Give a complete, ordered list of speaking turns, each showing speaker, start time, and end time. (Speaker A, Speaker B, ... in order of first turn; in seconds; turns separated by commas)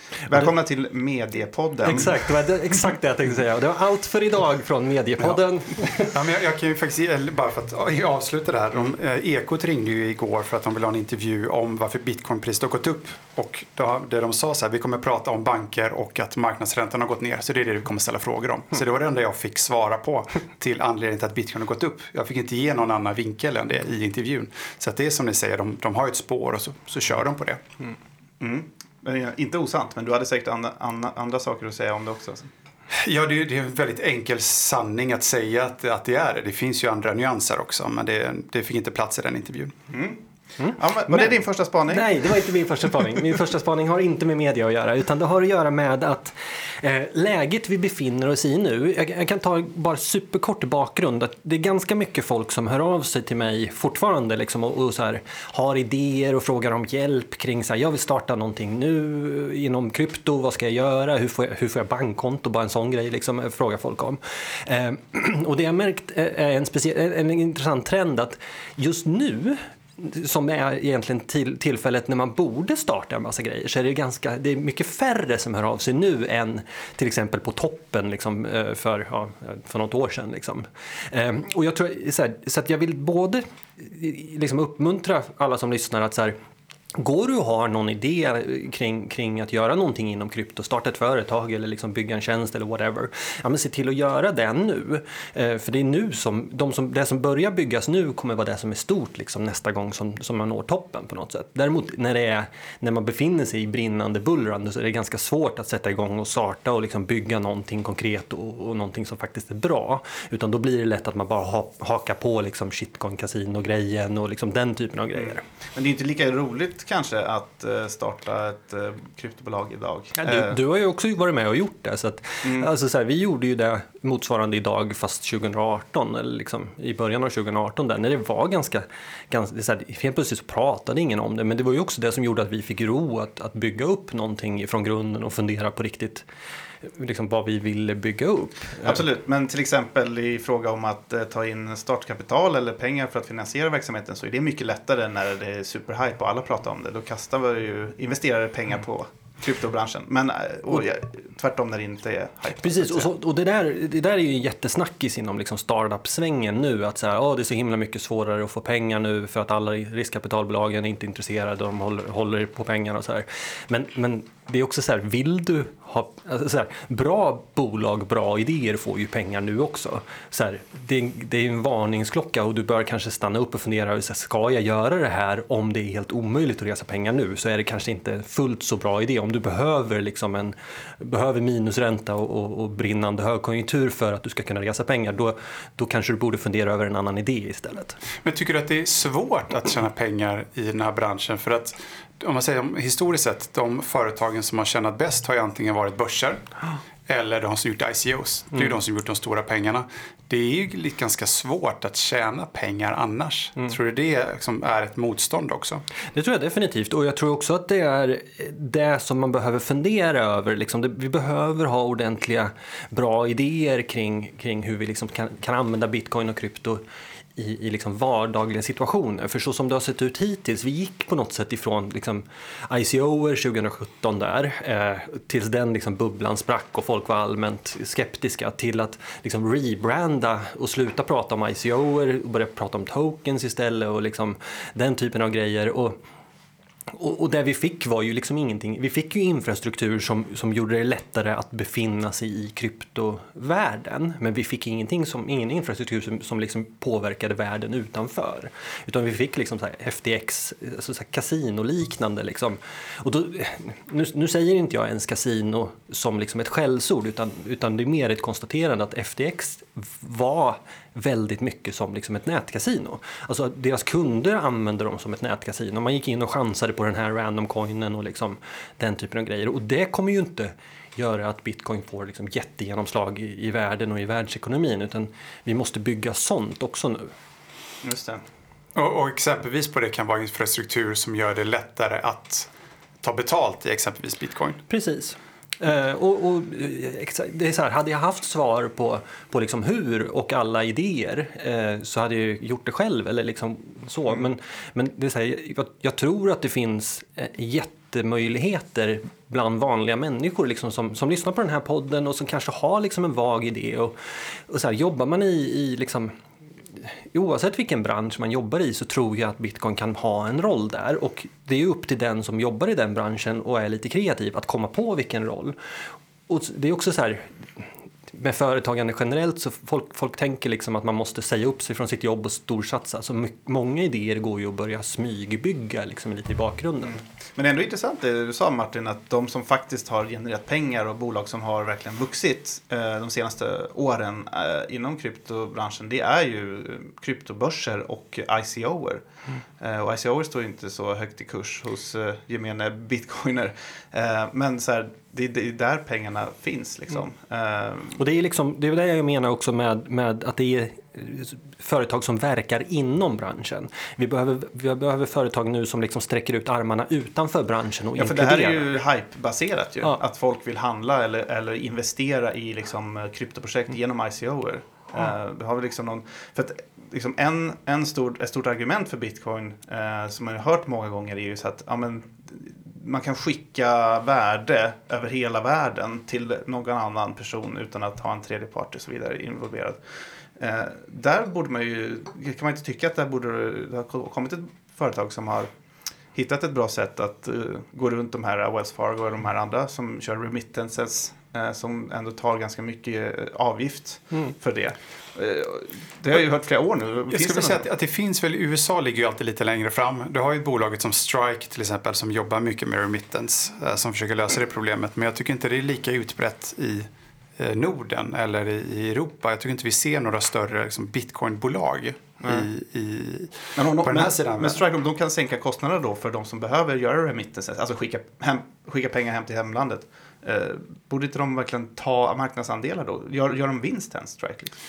Speaker A: 0.3-2.2, Speaker B: 1.8-6.2, Speaker C: 5.9-27.6, Speaker A: 28.4-32.5, Speaker C: 32.9-39.7, Speaker A: 39.9-42.3, Speaker B: 40.6-86.3, Speaker B: 87.0-115.4, Speaker A: 115.2-120.6, Speaker B: 120.2-136.2, Speaker A: 122.4-122.7, Speaker B: 136.8-139.0, Speaker A: 138.8-153.1, Speaker B: 152.6-188.0, Speaker C: 188.2-196.4, Speaker C: 197.1-205.8, Speaker B: 206.1-216.8, Speaker B: 217.3-236.0, Speaker B: 236.9-277.1, Speaker A: 277.8-278.2, Speaker C: 278.7-282.5, Speaker C: 283.0-284.6, Speaker B: 284.7-303.9, Speaker B: 304.5-306.1, Speaker B: 306.8-315.5, Speaker B: 316.3-327.0, Speaker A: 326.8-339.0, Speaker A: 339.6-348.0, Speaker B: 347.9-358.7, Speaker A: 358.0-379.8, Speaker A: 380.4-385.5, Speaker A: 386.1-397.6, Speaker C: 397.1-414.6, Speaker A: 412.2-412.5, Speaker A: 413.5-424.6